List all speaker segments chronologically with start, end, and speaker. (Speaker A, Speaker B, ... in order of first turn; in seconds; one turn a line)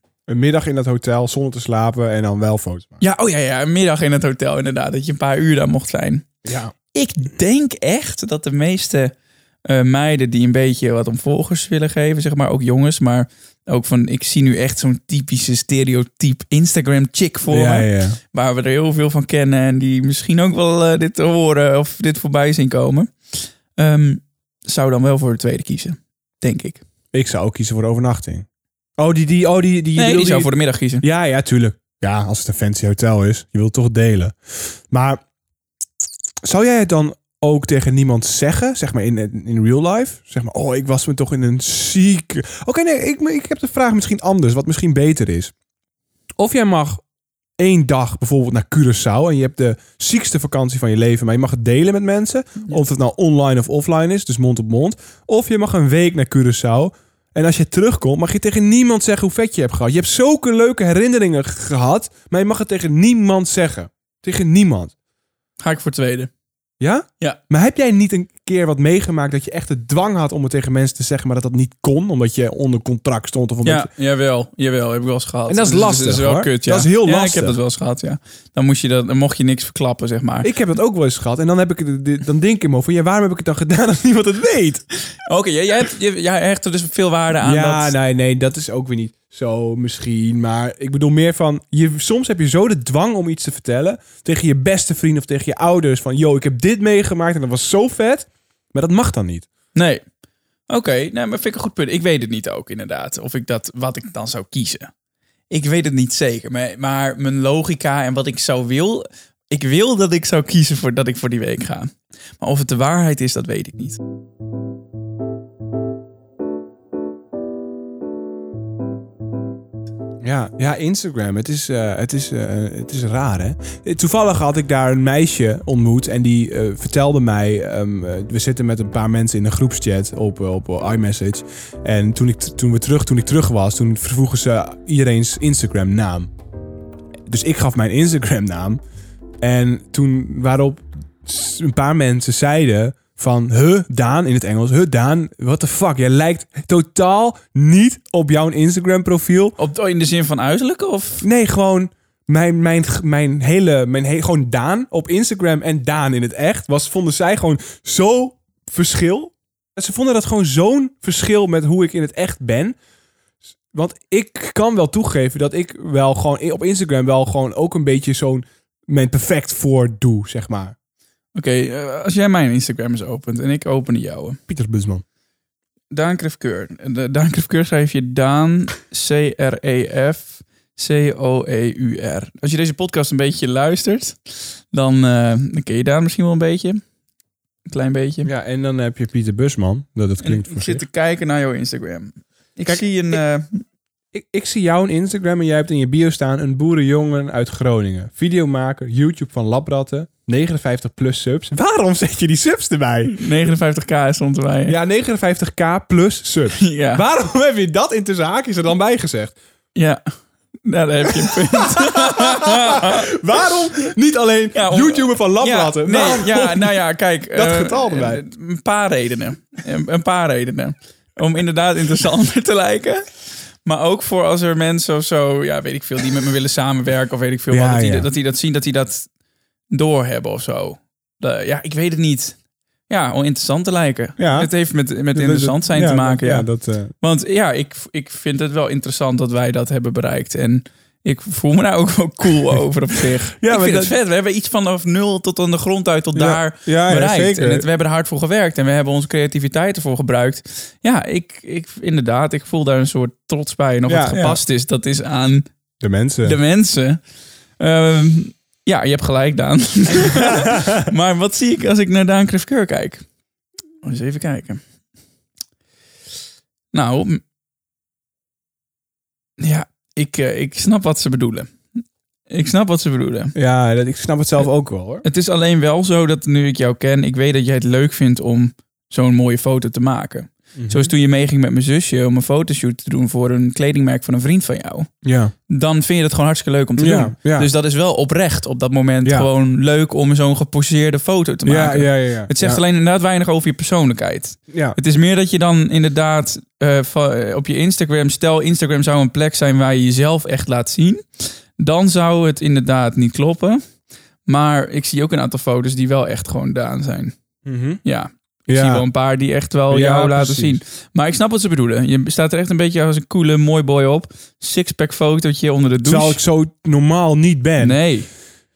Speaker A: 0.3-3.0
Speaker B: 3.0-6.3
Speaker A: 6.5-6.7
Speaker B: 6.9-9.1
Speaker B: 9.7-26.8
Speaker A: 17.5-18.2
Speaker A: 27.1-28.5
Speaker A: 29.0-30.5
Speaker B: 30.0-31.0
Speaker A: 31.0-35.2
Speaker A: 36.4-45.5
Speaker A: 46.4-47.0
Speaker A: 47.6-64.9
Speaker B: 65.6-66.3
Speaker A: 66.8-73.9
Speaker B: 73.6-80.5
Speaker A: 75.5-77.6
Speaker A: 80.4-84.8
Speaker B: 85.2-87.9
Speaker A: 87.4-99.5
Speaker B: 99.7-100.1
Speaker B: 100.7-104.9
Speaker B: 105.5-114.0
Speaker A: 120.2-136.3
Speaker A: 137.3-138.8
Speaker A: 139.4-149.6
Speaker B: 149.6-151.2
Speaker A: 151.2-162.8
Speaker A: 163.7-170.8
Speaker B: 171.3-174.4
Speaker A: 174.5-175.0
Speaker B: 175.9-186.8
Speaker B: 187.7-188.3
Speaker A: 188.2-190.8
Speaker B: 190.2-193.6
Speaker A: 192.7-193.2
Speaker A: 194.1-203.2
Speaker B: 203.1-204.8
Speaker A: 204.7-209.4
Speaker B: 206.6-207.0
Speaker B: 209.8-213.5
Speaker A: 211.9-216.8
Speaker B: 214.5-229.2
Speaker A: 217.3-218.2
Speaker A: 227.5-228.1
Speaker B: 229.7-255.5
Speaker A: 234.2-234.5
Speaker A: 235.1-236.9
Speaker A: 243.4-243.9
Speaker A: 246.2-247.7
Speaker A: 253.9-254.4
Speaker A: 255.8-256.4
Speaker B: 256.2-257.0
Speaker B: 257.6-263.1
Speaker A: 260.1-260.7
Speaker B: 263.8-264.6
Speaker B: 266.7-267.2
Speaker B: 269.4-273.3
Speaker A: 273.4-275.0
Speaker B: 275.0-284.9
Speaker A: 280.6-280.9
Speaker A: 285.0-285.3
Speaker B: 285.5-303.6
Speaker A: 286.8-287.5
Speaker A: 291.5-292.6
Speaker B: 304.2-307.2
Speaker A: 307.4-307.8
Speaker B: 307.8-316.2
Speaker A: 308.5-308.8
Speaker A: 309.7-310.6
Speaker A: 315.9-317.9
Speaker B: 317.6-318.2